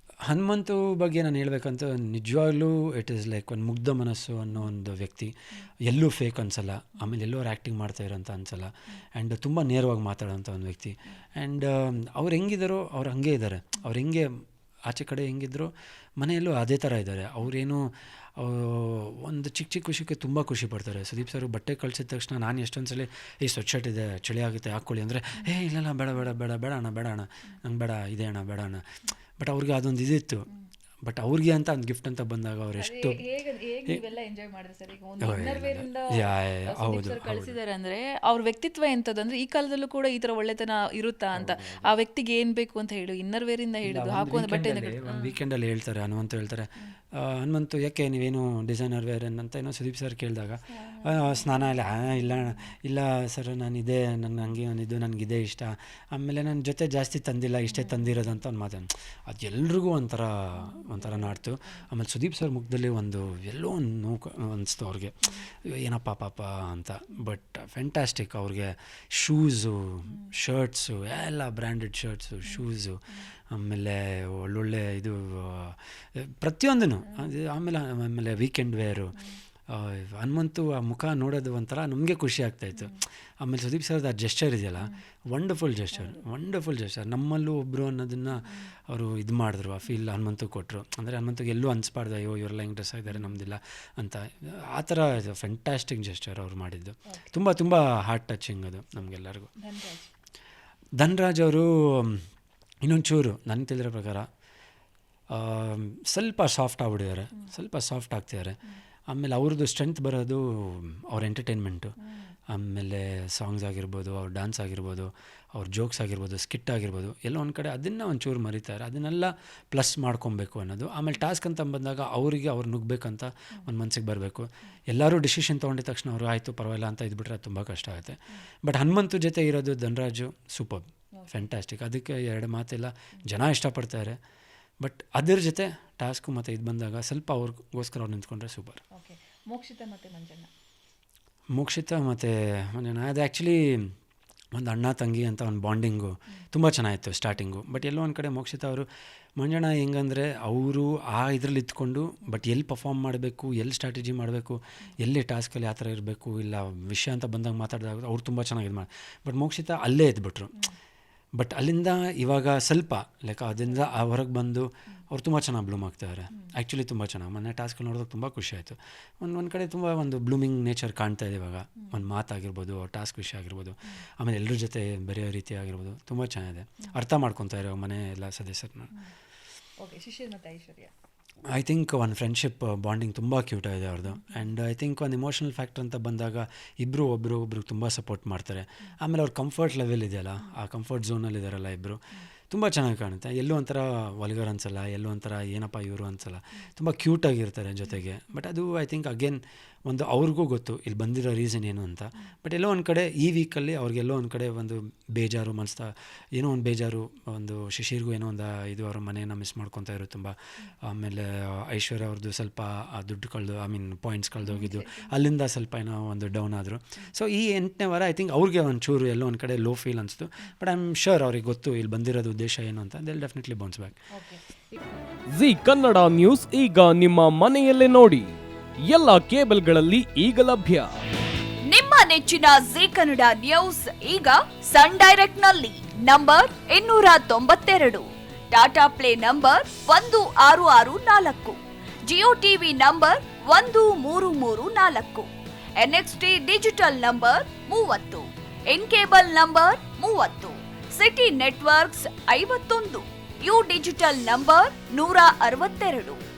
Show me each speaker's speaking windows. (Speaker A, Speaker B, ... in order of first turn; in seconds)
Speaker A: 0.3-5.3, 5.9-14.3, 14.9-28.8, 29.4-30.5, 31.0-33.2, 35.2-37.6, 41.3-41.9, 43.8-79.2, 79.7-99.5, 101.0-102.3, 102.8-104.3, 105.3-108.6, 109.1-112.0, 112.5-134.2, 134.8-138.8, 141.5-143.9, 144.5-160.6, 161.4-178.9, 181.5-224.0
Speaker B: 32.8-45.4, 50.7-52.7, 57.7-58.1, 60.6-61.9, 70.1-70.3, 72.5-73.3, 77.0-77.3, 82.8-83.0, 85.9-86.2, 88.4-88.7, 93.1-93.4, 99.6-100.1, 112.0-112.4, 131.2-131.4, 138.9-140.5, 163.7-164.0, 179.8-180.9, 184.1-184.5, 214.5-215.2, 224.1-224.8
Speaker C: 225.3-228.3, 228.9-230.9
Speaker D: 231.7-256.2